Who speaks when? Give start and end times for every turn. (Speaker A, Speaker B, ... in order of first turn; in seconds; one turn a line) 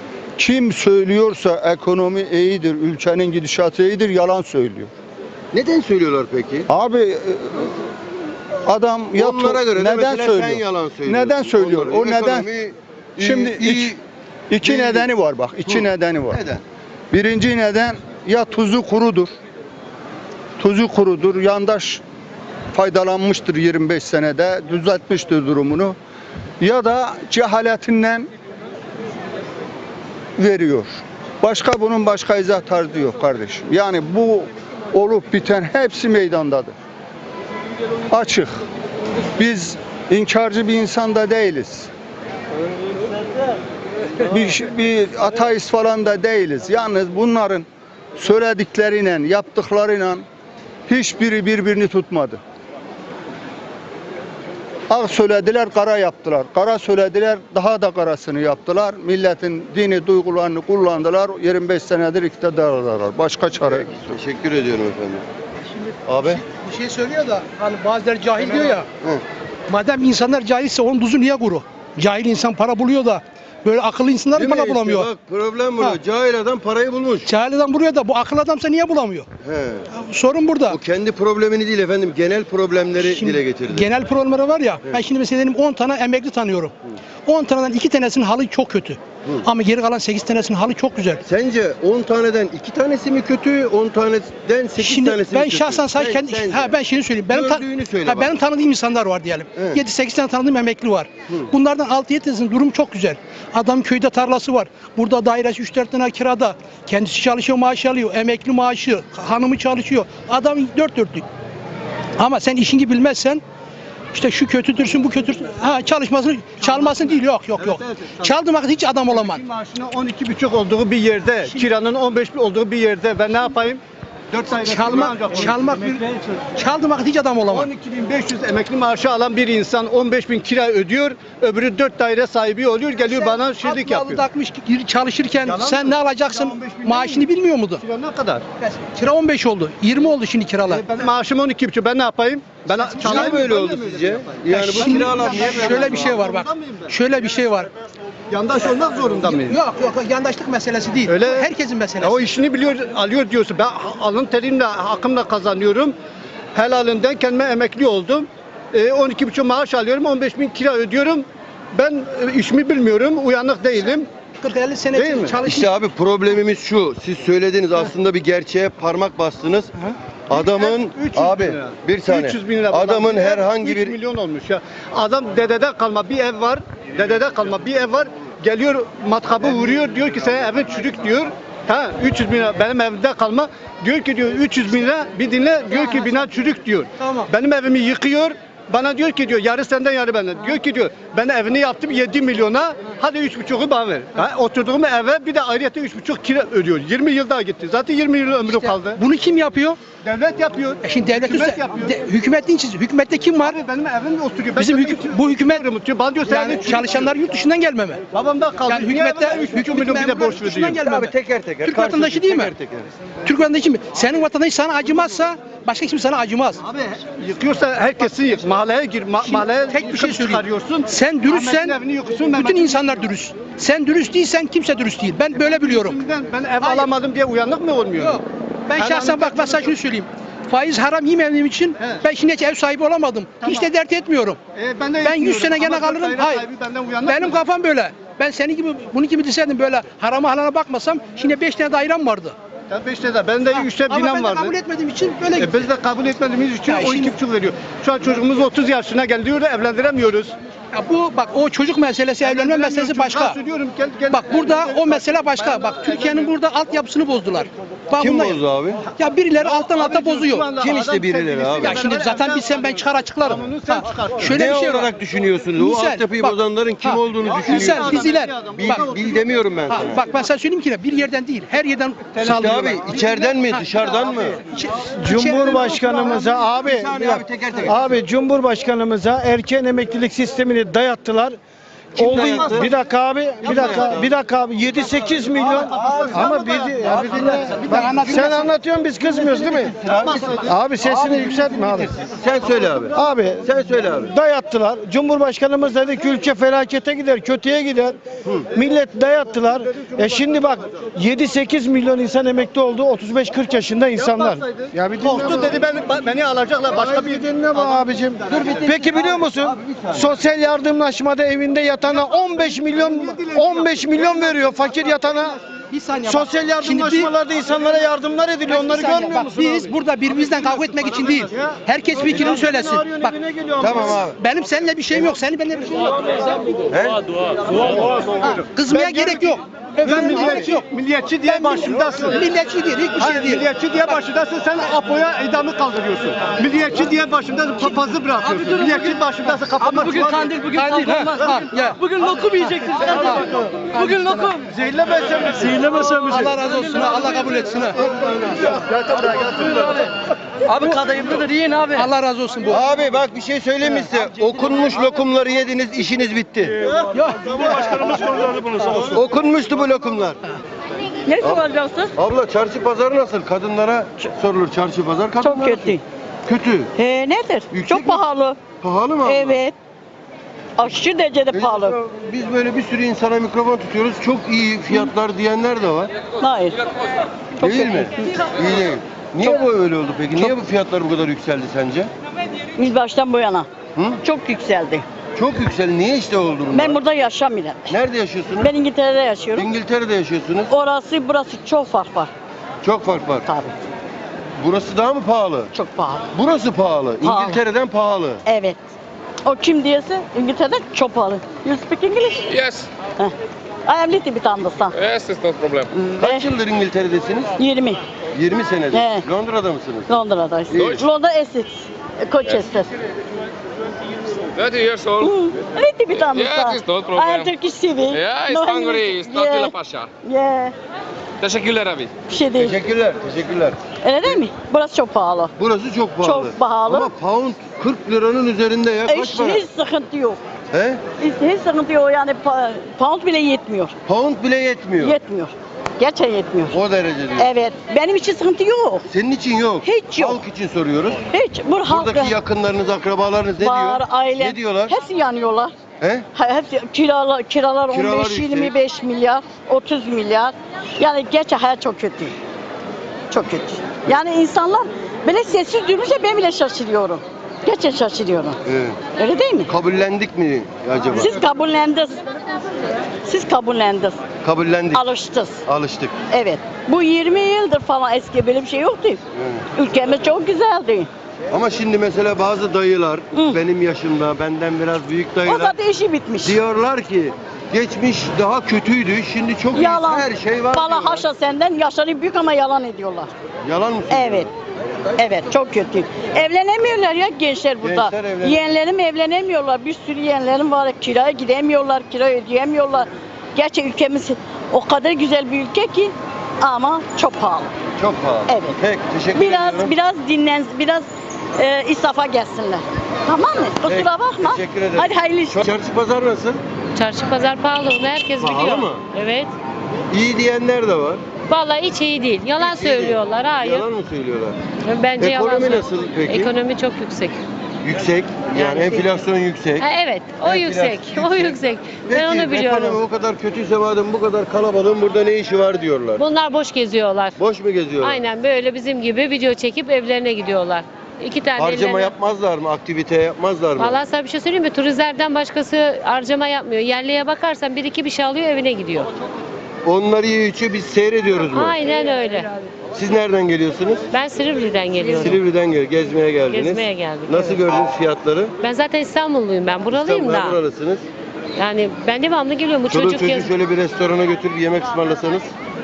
Speaker A: 0.4-4.9
Speaker B: 5.5-6.7
Speaker A: 6.7-7.7
Speaker A: 8.6-12.5
Speaker B: 9.1-14.0
Speaker A: 13.2-13.9
Speaker A: 14.5-16.4
Speaker B: 14.6-15.0
Speaker B: 15.7-16.6
Speaker A: 17.1-19.3
Speaker A: 20.6-22.0
Speaker A: 22.7-25.9
Speaker A: 26.6-28.3
Speaker A: 30.4-36.7
Speaker A: 38.1-38.6
Speaker A: 39.4-41.9
Speaker A: 44.2-50.2
Speaker A: 50.9-52.4
Speaker A: 54.9-64.1
Speaker B: 63.7-65.2
Speaker B: 66.0-66.4
Speaker C: 66.2-68.9
Speaker C: 69.7-75.1
Speaker B: 74.3-77.3
Speaker C: 77.2-79.2
Speaker B: 79.4-79.9
Speaker C: 79.9-80.8
Speaker B: 80.7-83.9
Speaker C: 83.0-86.7
Speaker C: 87.2-91.2
Speaker B: 91.2-96.7
Speaker C: 94.8-111.2
Speaker B: 97.3-98.4
Speaker B: 99.5-99.8
Speaker C: 112.2-113.4
Speaker C: 114.1-119.4
Speaker D: 116.6-118.3
Speaker D: 119.1-126.2
Speaker C: 124.6-127.7
Speaker D: 127.5-134.2
Speaker C: 133.0-137.8
Speaker D: 135.4-138.4
Speaker C: 138.6-140.8
Speaker D: 140.7-146.9
Speaker C: 143.0-143.4
Speaker B: 143.0-146.2
Speaker C: 144.5-147.7
Speaker D: 148.3-149.6
Speaker C: 149.2-152.3
Speaker D: 151.1-155.9
Speaker D: 156.5-164.1
Speaker C: 164.4-165.7
Speaker D: 164.9-165.4
Speaker B: 165.4-169.7
Speaker B: 170.3-174.0
Speaker D: 170.3-199.0
Speaker C: 185.8-186.2
Speaker C: 187.0-187.3
Speaker C: 198.5-199.8
Speaker D: 200.0-202.2
Speaker C: 200.8-203.6
Speaker D: 203.4-207.1
Speaker C: 204.6-205.7
Speaker C: 206.2-208.0
Speaker D: 208.1-210.8
Speaker C: 208.6-211.1
Speaker B: 210.8-212.9
Speaker C: 211.6-212.5
Speaker C: 213.2-216.6
Speaker D: 216.6-223.1
Speaker C: 219.2-226.0
Speaker D: 225.3-228.2
Speaker C: 226.6-226.9
Speaker C: 228.0-234.4
Speaker D: 228.8-229.7
Speaker D: 231.8-232.0
Speaker D: 233.4-233.7
Speaker D: 234.6-237.4
Speaker C: 235.0-236.5
Speaker C: 237.0-242.3
Speaker D: 242.7-244.5
Speaker C: 243.5-245.7
Speaker D: 245.2-250.3
Speaker C: 246.6-247.2
Speaker C: 250.7-253.4
Speaker D: 252.2-256.3
Speaker C: 254.1-260.5
Speaker B: 258.0-258.8
Speaker D: 259.4-264.5
Speaker B: 260.6-261.9
Speaker C: 261.6-264.9
Speaker B: 264.2-270.0
Speaker C: 265.6-268.9
Speaker D: 267.2-269.5
Speaker C: 269.7-273.7
Speaker D: 272.2-273.3
Speaker B: 272.2-274.5
Speaker C: 274.4-276.2
Speaker E: 275.0-281.4
Speaker D: 275.4-276.3
Speaker B: 275.9-278.0
Speaker B: 281.9-282.7
Speaker E: 281.9-289.8
Speaker B: 283.4-284.1
Speaker B: 285.3-294.1
Speaker D: 285.6-288.1
Speaker C: 287.4-288.3
Speaker D: 290.1-290.4
Speaker E: 290.4-291.9
Speaker E: 292.9-298.0
Speaker E: 298.5-305.6
Speaker D: 304.0-308.8
Speaker E: 306.8-315.4
Speaker B: 308.3-310.1
Speaker D: 311.9-314.5
Speaker D: 315.1-315.4
Speaker C: 315.7-317.1
Speaker E: 316.0-319.7
Speaker C: 318.5-323.2
Speaker D: 320.1-323.9
Speaker B: 323.6-324.2
Speaker C: 323.7-326.2
Speaker B: 326.7-327.7
Speaker D: 327.7-332.3
Speaker C: 328.2-330.7
Speaker C: 331.2-333.4
Speaker D: 333.0-341.3
Speaker C: 338.2-339.0
Speaker C: 339.6-344.3
Speaker F: 339.7-342.7
Speaker D: 342.7-343.1
Speaker F: 343.8-344.4
Speaker D: 344.5-345.5
Speaker E: 345.3-347.4
Speaker C: 346.0-347.8
Speaker A: 348.4-349.7
Speaker E: 349.3-349.6
Speaker F: 350.5-351.9
Speaker C: 351.7-352.6
Speaker B: 352.5-356.5
Speaker C: 356.9-358.2
Speaker E: 358.3-358.7
Speaker B: 358.8-360.2
Speaker G: 361.1-361.9
Speaker B: 361.2-361.4
Speaker B: 362.0-366.7
Speaker G: 365.2-365.8
Speaker G: 366.8-368.4
Speaker B: 367.5-369.4
Speaker G: 369.0-369.5
Speaker G: 370.6-371.7
Speaker B: 371.3-375.9
Speaker G: 376.2-376.6
Speaker G: 377.4-377.9
Speaker B: 377.4-381.9
Speaker G: 382.6-383.5
Speaker G: 384.0-384.8
Speaker B: 385.1-386.8
Speaker G: 386.5-387.7
Speaker B: 387.7-388.5
Speaker G: 388.4-389.5
Speaker B: 389.3-390.5
Speaker G: 390.5-392.1
Speaker B: 392.6-393.3
Speaker G: 393.2-393.5
Speaker B: 394.4-395.5
Speaker G: 395.5-396.1
Speaker B: 396.1-398.2
Speaker G: 397.0-397.4
Speaker G: 398.2-398.6
Speaker G: 399.2-402.3
Speaker H: 402.3-402.7
Speaker G: 403.7-404.8
Speaker H: 404.7-405.7
Speaker G: 405.7-406.3
Speaker B: 406.0-407.3
Speaker G: 407.4-407.8
Speaker B: 408.1-409.9
Speaker G: 408.7-409.0
Speaker G: 409.9-412.7
Speaker B: 410.5-410.8
Speaker H: 410.5-410.8
Speaker H: 414.3-419.9
Speaker G: 415.0-420.5
Speaker H: 421.2-421.9
Speaker G: 422.1-422.6
Speaker B: 422.4-423.6
Speaker G: 423.8-425.3
Speaker B: 425.4-429.4
Speaker G: 426.0-426.9
Speaker G: 428.9-430.2
Speaker B: 430.5-430.8
Speaker G: 431.0-433.7
Speaker B: 433.9-435.0
Speaker G: 434.8-436.5
Speaker B: 436.5-437.3
Speaker G: 437.2-438.9
Speaker B: 438.9-441.0
Speaker G: 439.6-440.2
Speaker G: 441.1-442.1
Speaker B: 441.7-444.8
Speaker G: 443.4-445.5
Speaker B: 445.8-446.1
Speaker G: 446.1-452.1
Speaker B: 447.7-448.5
Speaker G: 453.1-459.5
Speaker B: 458.4-458.8
Speaker B: 459.5-461.1
Speaker G: 460.9-462.3
Speaker G: 463.0-464.0
Speaker B: 464.2-464.9
Speaker G: 464.7-465.4
Speaker B: 465.4-465.9
Speaker G: 466.1-469.0
Speaker B: 469.1-469.4
Speaker G: 469.5-470.9
Speaker B: 471.3-475.6
Speaker G: 473.1-473.4
Speaker G: 475.2-476.4
Speaker B: 476.2-481.1
Speaker G: 479.5-483.1
Speaker B: 483.4-484.3
Speaker G: 483.9-484.3
Speaker G: 485.0-497.5
Speaker B: 487.6-488.5
Speaker B: 497.8-499.7
Speaker G: 498.3-498.6
Speaker G: 499.1-505.4
Speaker B: 503.6-506.4
Speaker I: 506.7-509.3
Speaker B: 508.2-508.8
Speaker B: 509.9-511.0
Speaker I: 511.3-513.6
Speaker B: 512.4-514.4
Speaker I: 514.6-517.2
Speaker B: 515.0-516.3
Speaker B: 517.6-519.6
Speaker I: 518.3-518.9
Speaker I: 519.6-522.8
Speaker B: 520.2-526.0
Speaker I: 526.0-527.2
Speaker B: 527.2-528.0
Speaker I: 527.8-531.9
Speaker B: 531.4-533.8
Speaker I: 533.6-538.9
Speaker B: 539.6-541.6
Speaker I: 541.3-542.3
Speaker B: 542.7-543.9
Speaker I: 543.9-545.2
Speaker B: 544.9-548.3
Speaker I: 546.3-547.4
Speaker I: 548.4-550.4
Speaker B: 549.7-550.8
Speaker I: 551.4-553.3
Speaker B: 552.7-555.3